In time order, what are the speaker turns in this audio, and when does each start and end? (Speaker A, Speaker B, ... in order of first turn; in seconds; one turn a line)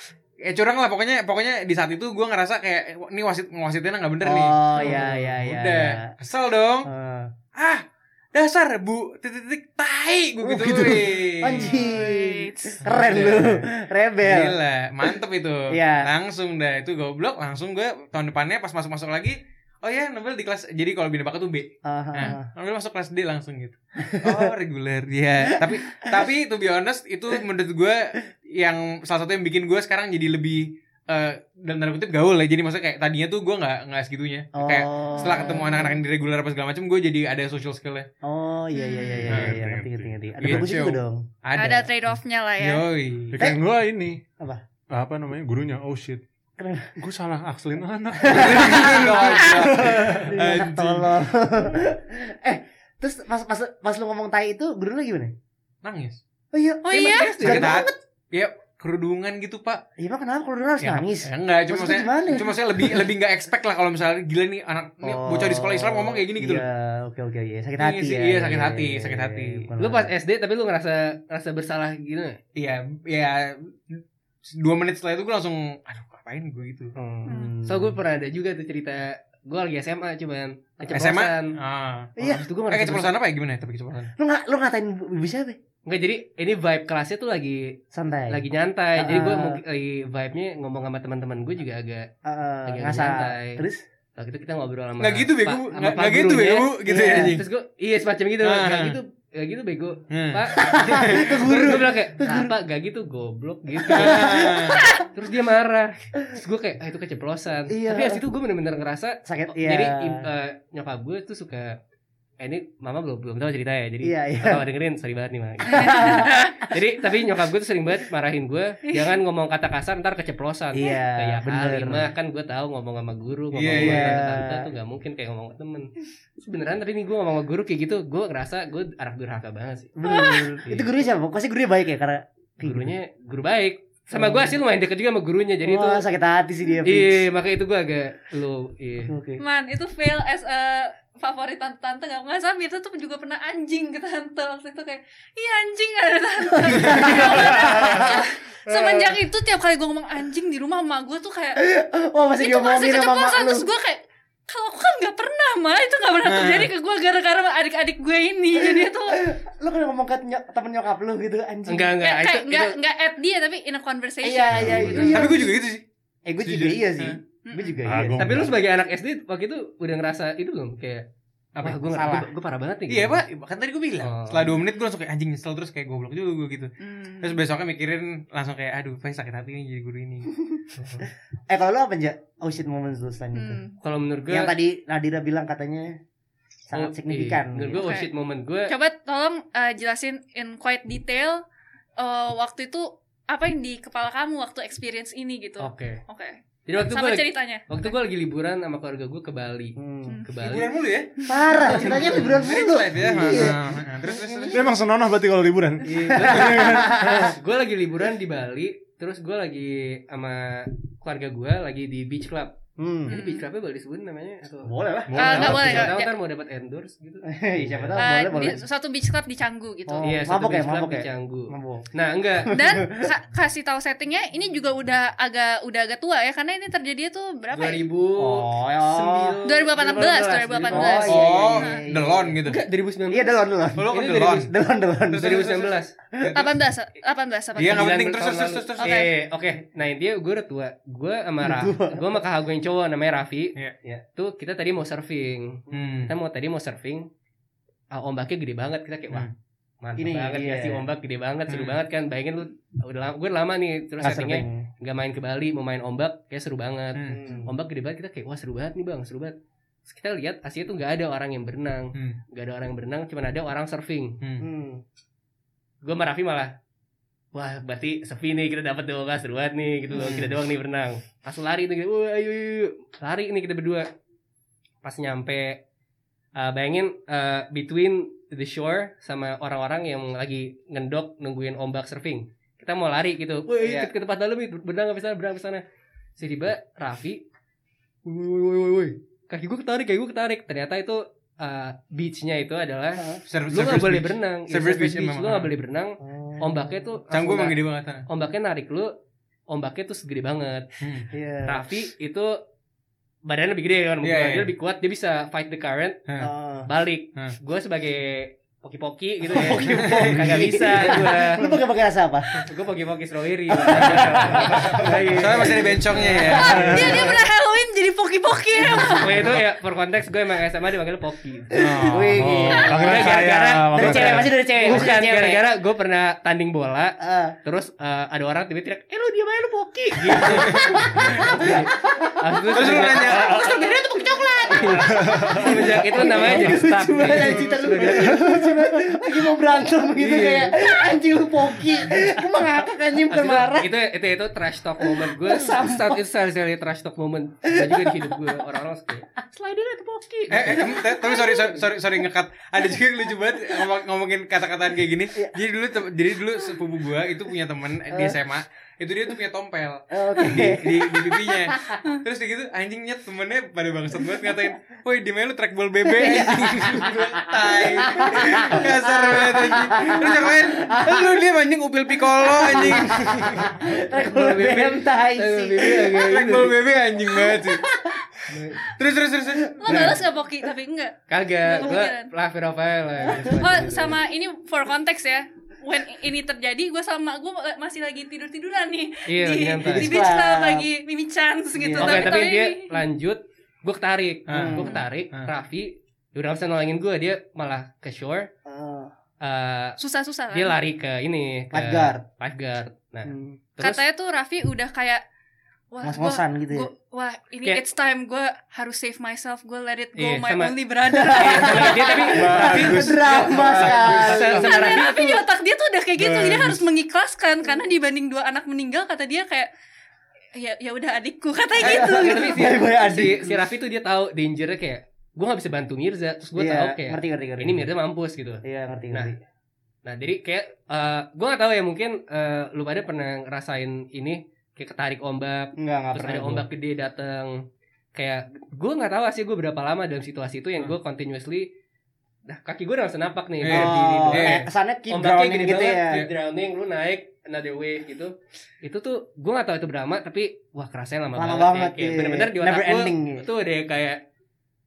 Speaker A: 0.4-6.9
Speaker B: 4.2-6.1
Speaker C: 4.8-5.0
Speaker B: 6.8-7.3
Speaker A: 7.5-12.0
Speaker B: 10.4-15.2
Speaker C: 11.5-12.8
Speaker A: 12.8-13.7
Speaker A: 14.2-38.1
Speaker B: 15.7-16.1
Speaker B: 21.9-22.5
Speaker B: 24.0-24.6
Speaker B: 25.5-26.2
Speaker B: 34.5-36.0
Speaker C: 35.2-36.0
Speaker B: 38.2-41.3
Speaker C: 38.7-39.3
Speaker D: 39.2-40.7
Speaker A: 39.3-39.6
Speaker A: 40.4-43.5
Speaker C: 41.6-42.9
Speaker D: 43.3-44.2
Speaker D: 44.9-46.2
Speaker B: 46.6-46.9
Speaker D: 47.0-50.3
Speaker B: 48.2-55.3
Speaker A: 48.3-51.1
Speaker A: 55.8-56.2
Speaker B: 56.5-58.0
Speaker C: 56.9-57.4
Speaker E: 57.0-57.8
Speaker A: 57.4-59.8
Speaker B: 60.0-63.1
Speaker A: 60.8-66.7
Speaker B: 65.0-70.1
Speaker A: 67.8-69.7
Speaker E: 69.8-72.4
Speaker A: 72.6-76.9
Speaker E: 77.0-81.6
Speaker B: 77.2-78.0
Speaker C: 77.3-77.5
Speaker A: 80.9-82.1
Speaker B: 82.2-82.5
Speaker E: 82.2-83.1
Speaker A: 82.7-84.1
Speaker B: 84.2-85.6
Speaker E: 85.9-87.8
Speaker B: 87.9-88.4
Speaker E: 88.3-92.1
Speaker B: 89.0-89.6
Speaker B: 92.2-93.8
Speaker E: 92.7-93.6
Speaker E: 94.2-111.8
Speaker A: 95.0-97.5
Speaker B: 96.9-97.4
Speaker A: 98.4-99.0
Speaker A: 100.1-101.7
Speaker B: 100.6-102.5
Speaker B: 103.8-105.0
Speaker A: 103.9-104.9
Speaker B: 107.7-108.2
Speaker B: 109.2-110.3
Speaker E: 112.4-131.0
Speaker B: 114.0-114.6
Speaker B: 115.7-116.5
Speaker C: 115.7-116.6
Speaker C: 118.9-119.1
Speaker B: 120.7-122.1
Speaker A: 123.5-124.2
Speaker B: 123.7-124.7
Speaker B: 130.0-132.9
Speaker C: 130.1-130.5
Speaker E: 132.6-136.0
Speaker B: 134.1-134.6
Speaker B: 135.6-137.3
Speaker E: 136.8-139.1
Speaker B: 139.1-139.4
Speaker C: 139.4-151.6
Speaker B: 146.7-148.3
Speaker A: 146.7-147.1
Speaker D: 147.0-148.1
Speaker B: 151.6-153.7
Speaker C: 152.4-159.3
Speaker A: 156.2-156.7
Speaker B: 158.6-161.9
Speaker E: 161.7-162.8
Speaker C: 162.0-165.3
Speaker B: 164.2-165.6
Speaker D: 164.5-165.2
Speaker A: 164.9-165.8
Speaker B: 166.3-168.4
Speaker A: 166.4-167.2
Speaker C: 167.4-167.8
Speaker D: 167.8-168.6
Speaker E: 168.2-171.1
Speaker A: 171.6-171.9
Speaker E: 171.6-173.2
Speaker B: 171.9-172.3
Speaker A: 172.9-180.4
Speaker E: 174.0-174.6
Speaker C: 176.8-177.4
Speaker E: 180.8-181.1
Speaker B: 181.5-183.6
Speaker C: 183.3-183.8
Speaker E: 183.8-184.5
Speaker B: 184.3-186.0
Speaker B: 186.7-187.8
Speaker E: 186.7-188.7
Speaker C: 187.8-188.1
Speaker C: 188.7-191.4
Speaker C: 192.0-197.9
Speaker E: 195.6-196.0
Speaker E: 196.7-200.7
Speaker B: 199.8-200.2
Speaker C: 200.1-200.3
Speaker A: 200.4-201.1
Speaker C: 201.2-201.6
Speaker B: 201.3-204.7
Speaker E: 201.6-202.4
Speaker A: 201.7-204.7
Speaker D: 204.5-207.4
Speaker E: 205.8-212.6
Speaker B: 205.9-207.3
Speaker B: 212.8-213.2
Speaker E: 213.1-218.1
Speaker C: 213.1-213.5
Speaker B: 214.6-215.8
Speaker D: 215.1-215.9
Speaker C: 215.1-216.1
Speaker B: 217.2-218.6
Speaker C: 218.0-220.2
Speaker B: 219.9-221.9
Speaker E: 220.0-222.6
Speaker B: 222.4-223.1
Speaker C: 222.5-227.8
Speaker E: 227.5-231.2
Speaker B: 228.2-229.4
Speaker C: 229.4-231.8
Speaker B: 230.7-232.4
Speaker A: 231.1-232.6
Speaker E: 232.5-234.5
Speaker B: 233.1-235.5
Speaker A: 233.8-234.5
Speaker A: 235.1-236.5
Speaker E: 235.1-236.0
Speaker C: 236.3-238.0
Speaker E: 237.6-247.1
Speaker A: 237.6-239.0
Speaker C: 238.8-239.1
Speaker B: 241.4-242.2
Speaker A: 245.7-246.1
Speaker E: 247.9-249.3
Speaker E: 249.8-259.4
Speaker B: 250.0-250.9
Speaker A: 251.5-251.8
Speaker B: 254.0-254.7
Speaker A: 256.9-257.2
Speaker B: 257.1-257.5
Speaker E: 259.9-264.2
Speaker A: 264.2-264.5
Speaker B: 264.4-264.8
Speaker E: 265.8-266.6
Speaker E: 267.3-273.9
Speaker B: 269.9-270.4
Speaker E: 274.8-275.6
Speaker E: 276.4-285.6
Speaker B: 283.6-283.9
Speaker E: 286.2-287.2
Speaker E: 288.1-298.9
Speaker B: 293.0-293.2
Speaker A: 293.3-295.5
Speaker B: 296.0-296.9
Speaker A: 297.1-298.1
Speaker E: 299.5-300.7
Speaker A: 300.8-301.1
Speaker B: 301.1-301.7
Speaker E: 301.4-302.4
Speaker E: 303.2-306.0
Speaker A: 304.0-304.5
Speaker B: 306.2-306.7
Speaker E: 306.7-311.4
Speaker B: 309.3-312.4
Speaker A: 309.7-310.6
Speaker E: 312.4-316.3
Speaker B: 313.5-317.2
Speaker A: 315.1-316.9
Speaker C: 316.3-319.2
Speaker D: 316.4-317.2
Speaker B: 318.6-319.4
Speaker E: 318.8-333.5
Speaker B: 321.5-323.1
Speaker A: 321.6-322.2
Speaker D: 322.1-324.3
Speaker B: 323.7-325.5
Speaker B: 327.0-327.4
Speaker B: 330.0-333.5
Speaker A: 330.1-331.4
Speaker A: 332.5-333.4
Speaker C: 333.0-335.1
Speaker E: 334.5-338.4
Speaker B: 334.5-343.8
Speaker D: 334.9-335.6
Speaker E: 339.9-340.6
Speaker E: 343.1-350.8
Speaker B: 344.8-346.0
Speaker B: 347.4-348.4
Speaker A: 350.3-373.6
Speaker B: 350.4-351.6
Speaker B: 357.9-358.2
Speaker B: 359.9-361.8
Speaker B: 365.9-371.2
Speaker B: 372.3-376.0
Speaker E: 373.6-376.6
Speaker A: 375.9-377.7
Speaker B: 377.1-378.0
Speaker E: 378.3-378.6
Speaker A: 378.6-380.0
Speaker B: 379.5-380.0
Speaker C: 379.6-382.1
Speaker E: 381.1-384.0
Speaker B: 383.0-383.9
Speaker C: 383.2-392.8
Speaker E: 389.1-389.9
Speaker B: 389.6-390.7
Speaker B: 391.6-392.2
Speaker E: 391.8-398.3
Speaker A: 394.3-395.3
Speaker B: 394.3-394.8
Speaker B: 398.4-398.9
Speaker E: 399.2-399.8
Speaker C: 399.8-400.6
Speaker E: 400.3-403.8
Speaker B: 401.5-402.0
Speaker B: 403.1-403.4
Speaker C: 403.6-405.0
Speaker C: 405.7-412.2
Speaker B: 405.8-406.7
Speaker E: 410.0-410.6
Speaker B: 410.9-414.7
Speaker E: 411.1-415.2
Speaker D: 412.1-413.7
Speaker A: 413.1-414.3
Speaker C: 414.2-419.5
Speaker A: 416.1-416.5
Speaker C: 420.4-422.5
Speaker B: 421.6-423.5
Speaker E: 421.6-429.1
Speaker B: 426.4-427.7
Speaker B: 428.4-429.2
Speaker E: 429.9-441.5
Speaker B: 435.6-436.5
Speaker E: 442.3-454.0
Speaker A: 443.4-444.4
Speaker B: 443.5-446.1
Speaker B: 451.1-453.3